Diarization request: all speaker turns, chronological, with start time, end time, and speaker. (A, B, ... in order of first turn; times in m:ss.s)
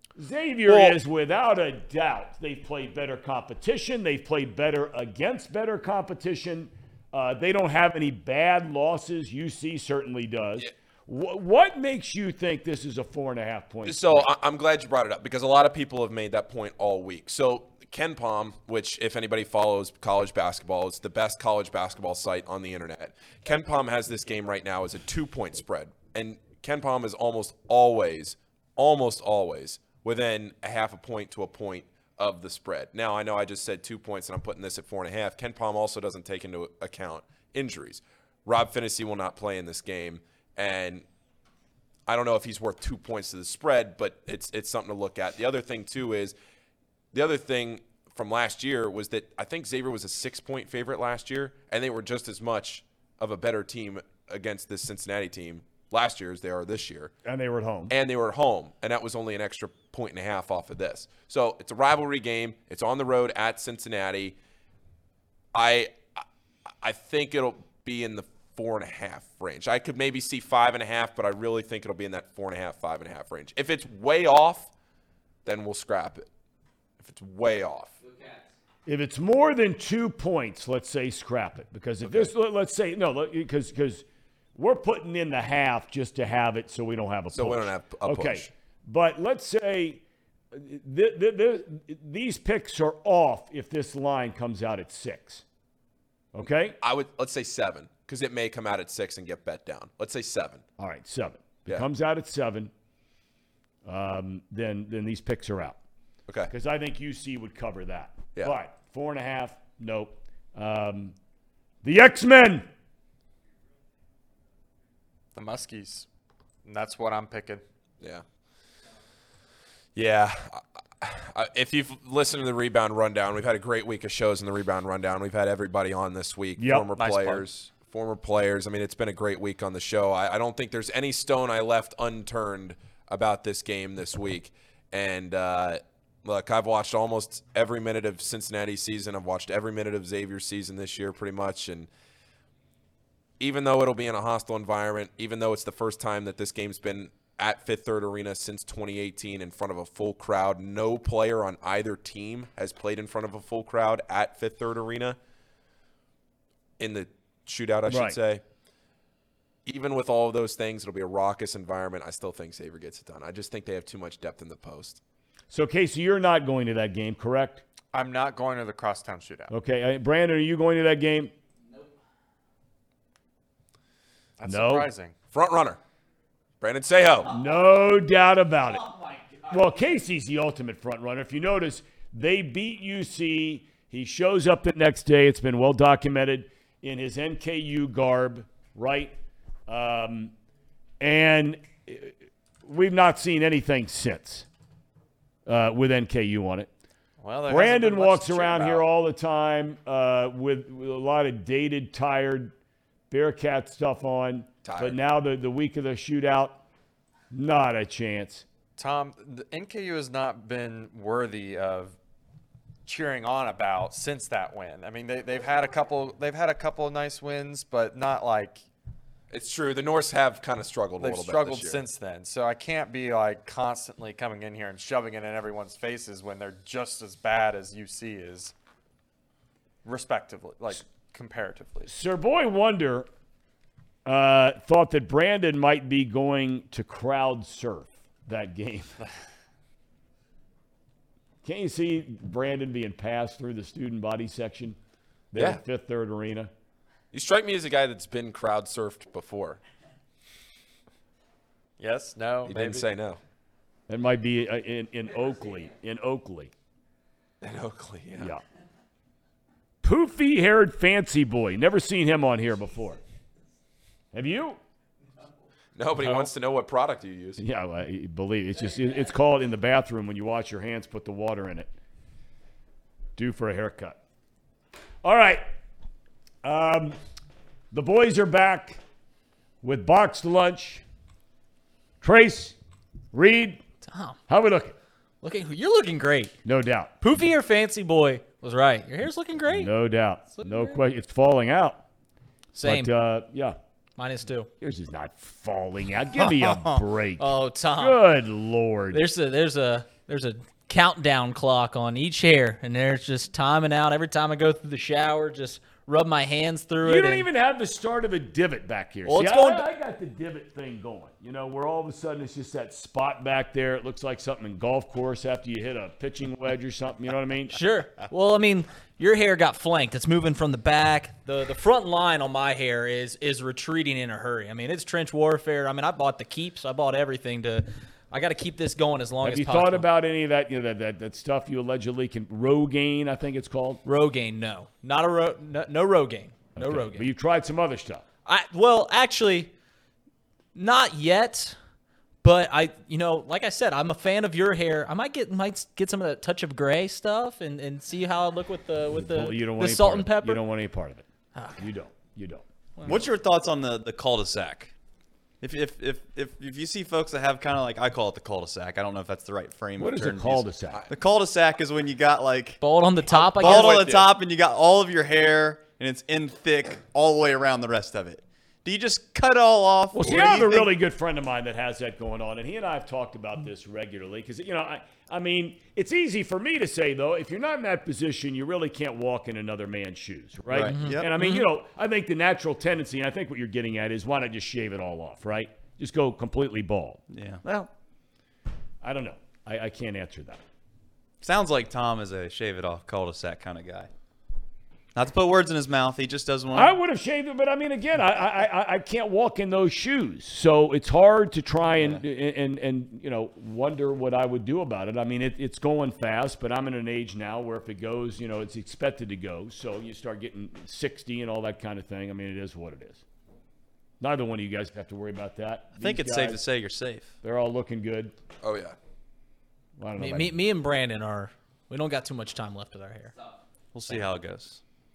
0:00.2-0:14.3 A
0:00.7-0:01.0 B
0:13.8-0:41.0 B
0:42.0-0:46.4 B
0:47.1-0:57.1 B
0:57.2-0:57.9 A
0:57.9-1:04.4 B
1:05.5-1:06.2 B
1:06.8-1:14.7 B
1:15.4-1:16.3 B
1:17.0-1:18.0 B
1:18.8-1:35.4 A
1:22.0-1:22.3 B
1:27.3-1:28.5 B
1:36.3-1:36.8 A
1:36.4-1:40.6 B
1:40.8-1:42.7 A
1:43.8-1:45.8 A
1:46.5-1:51.1 A
1:51.8-1:52.7 A
1:55.3-1:56.1 C
1:56.6-1:57.6 C
1:59.9-2:21.9 B
2:06.6-2:06.9 A
2:07.0-2:07.5 C
2:23.4-2:35.2 B
2:36.8-2:38.4 B
2:37.9-2:38.2 A
2:39.6-2:45.0 B
2:45.5-2:47.6 A
2:47.9-2:49.5 C
2:49.5-2:51.3 A
2:54.4-2:55.1 C
2:54.5-2:54.9 A
2:55.3-2:55.8 B
2:56.6-2:57.4 B
2:57.3-2:58.8 A
2:59.4-3:09.2 A
3:09.7-3:10.3 A
3:11.0-3:14.5 A
3:15.4-3:16.7 A
3:17.2-3:18.9 C
3:17.4-3:22.5 A
3:23.1-3:26.6 A
3:24.6-3:25.0 B
3:27.3-3:28.4 A
3:28.8-3:32.0 C
3:32.8-3:38.6 C
3:39.3-3:41.8 B
3:41.0-3:48.5 C
3:49.8-3:51.9 C
3:51.8-3:53.1 A
3:54.0-3:59.0 A
4:01.4-4:04.8 A
4:05.3-4:06.5 A
4:05.3-4:05.6 B
4:07.1-4:09.6 B
4:11.8-4:12.9 C
4:12.4-4:13.2 B
4:13.9-4:16.5 A
4:17.4-4:18.3 B
4:19.8-4:23.0 A
4:24.1-4:24.6 A
4:25.7-4:27.4 B
4:27.4-4:31.7 A
4:33.2-4:34.0 A
4:35.0-4:35.5 A
4:36.4-4:37.0 A
4:37.7-4:38.8 A
4:39.6-4:40.8 A
4:42.0-4:42.6 A
4:43.1-4:43.6 A
4:43.8-4:44.2 D
4:44.3-4:44.8 A
4:45.2-4:46.4 D
4:46.4-4:46.9 A
4:47.0-4:49.7 D
4:49.5-4:51.8 A
4:50.3-4:50.8 D
4:52.5-4:52.9 D
4:52.6-4:53.6 A
4:54.0-4:54.5 D
4:54.6-4:59.0 A
4:57.2-4:58.0 D
4:58.9-5:07.3 D
5:06.8-5:17.6 A
5:09.2-5:09.6 D
5:17.5-5:29.9 D
5:29.2-5:33.8 A
5:33.8-5:37.1 D
5:36.6-5:38.0 A
5:38.2-5:39.5 D
5:40.5-5:41.6 D
5:42.2-5:50.4 D
5:48.9-5:53.0 A
5:51.3-5:51.6 D
5:52.8-5:54.7 E
5:55.4-6:10.7 E
5:59.8-6:00.8 A
6:02.6-6:03.8 D
6:03.2-6:04.1 B
6:09.9-6:27.0 A
6:20.5-6:21.1 E
6:20.7-6:21.5 D
6:27.1-6:27.4 E
6:28.8-6:30.4 A
6:31.2-6:33.9 E
6:34.9-6:36.7 E
6:36.5-6:53.0 A
6:54.0-6:56.4 A
6:55.8-6:57.1 E
6:57.2-6:58.1 A
6:58.4-6:58.8 B
6:59.8-7:00.4 A
7:00.0-7:03.1 D
7:03.7-7:04.6 E